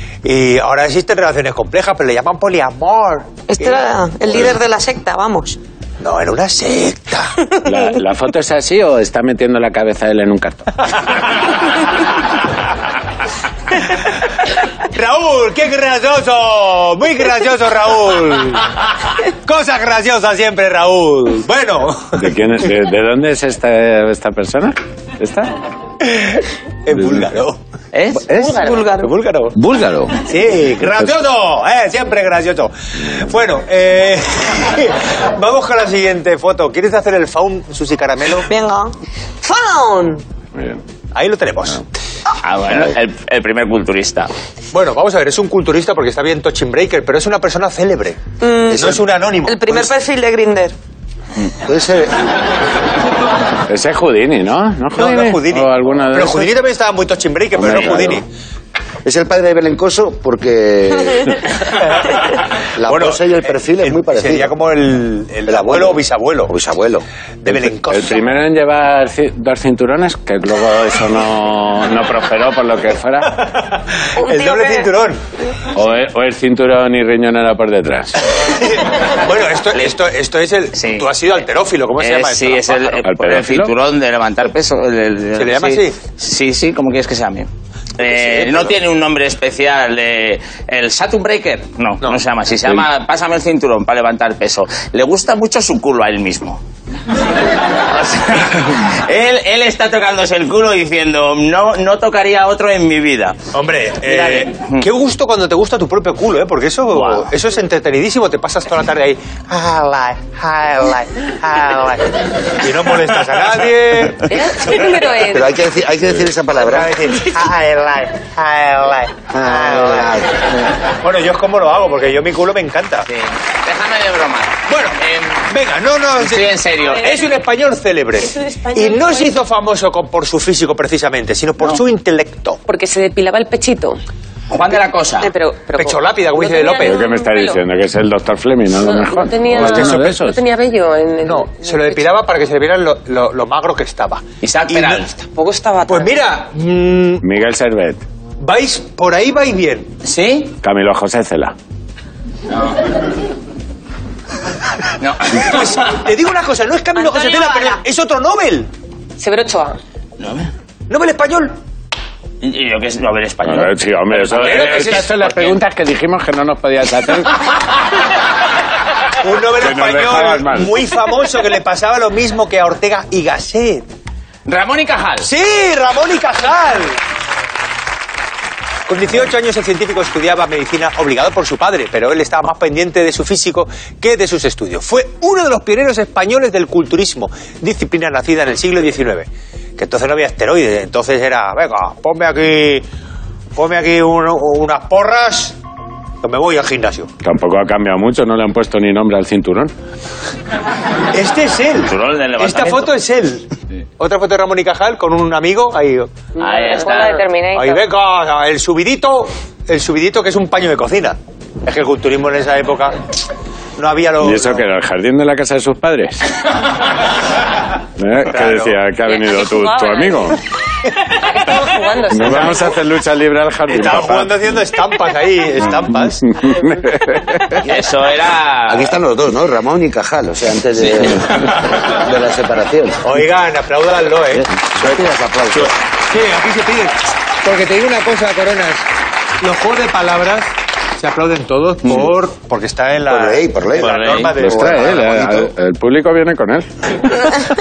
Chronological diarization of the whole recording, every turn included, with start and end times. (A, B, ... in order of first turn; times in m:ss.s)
0:00.2-0:04.5 A
0:03.5-0:05.6 B
0:06.0-0:07.3 A
0:07.6-0:10.7 C
0:14.8-0:22.3 A
0:22.2-0:25.5 C
0:26.0-0:27.6 A
0:27.0-0:27.3 C
0:27.9-0:28.3 D
0:28.4-0:29.1 B
0:28.4-0:28.8 E
0:28.9-0:29.6 A
0:29.5-0:30.2 C
0:30.2-0:38.5 A
0:38.5-0:40.2 B
0:40.6-0:40.8 C
0:41.1-0:41.8 A
0:42.4-0:44.3 D
0:44.7-0:49.9 A
0:48.4-0:50.7 B
0:51.6-0:52.2 F
0:53.7-0:56.5 C
0:54.9-0:58.3 A
0:57.5-0:58.2 C
0:59.0-1:01.5 F
1:01.8-1:02.2 A
1:02.8-1:04.5 F
1:02.8-1:06.5 A
1:05.5-1:07.0 F
1:07.4-1:08.3 A
1:07.5-1:13.4 C
1:13.4-1:15.2 A
1:14.2-1:14.9 B
1:15.8-1:18.2 C
1:18.4-1:23.0 A
1:20.8-1:21.1 D
1:22.0-1:36.6 D
1:23.0-1:23.7 C
1:25.4-1:26.0 A
1:28.0-1:28.8 A
1:37.9-1:43.4 D
1:43.5-1:54.3 A
1:44.0-1:44.8 D
1:46.9-1:47.3 D
1:54.3-1:55.6 E
1:55.3-1:57.1 F
1:56.5-2:00.2 A
1:59.3-2:00.5 F
2:01.0-2:03.1 A
2:03.1-2:05.4 D
2:04.7-2:12.6 A
2:06.2-2:07.2 D
2:06.8-2:07.2 E
2:08.3-2:09.4 E
2:12.7-2:14.0 E
2:14.5-2:15.3 D
2:15.2-2:17.6 E
2:15.7-2:17.0 A
2:16.8-2:20.4 C
2:18.8-2:22.1 E
2:19.5-2:20.3 A
2:21.2-2:25.2 A
2:24.4-2:25.1 D
2:25.3-2:26.3 E
2:25.9-2:27.2 A
2:27.2-2:28.0 C
2:28.4-2:29.9 A
2:30.0-2:30.5 D
2:30.6-2:31.6 C
2:35.0-2:35.7 D
2:35.4-2:38.7 A
2:37.0-2:37.8 B
2:39.2-2:39.8 E
2:40.2-2:40.5 D
2:40.9-2:41.6 A
2:42.4-2:45.6 D
2:43.4-2:47.4 C
2:44.4-2:45.3 A
2:49.2-2:53.8 A
2:49.6-2:50.8 C
2:54.5-2:55.3 D
2:55.2-2:57.0 A
2:58.9-3:12.9 A
3:13.6-3:15.6 A
3:16.2-3:17.1 A
3:17.2-3:19.7 C
3:21.1-3:26.2 A
3:21.9-3:22.9 D
3:26.4-3:27.2 D
3:26.4-3:27.2 E
3:26.6-3:27.9 B
3:27.5-3:33.0 A
3:33.8-3:34.7 A
3:34.2-3:36.4 C
3:38.0-3:40.4 C
3:38.3-3:38.8 A
3:39.0-3:40.4 E
3:41.2-3:42.7 E
3:42.1-3:44.4 C
3:42.3-3:42.6 A
3:43.7-3:46.3 A
3:45.7-3:47.7 C
3:47.6-3:49.0 D
3:48.7-3:53.1 F
3:53.0-3:54.5 A
3:54.6-3:55.8 F
3:55.6-3:58.9 A
3:59.4-4:05.2 A
4:03.1-4:05.5 F
4:03.8-4:04.3 D
4:04.4-4:07.4 C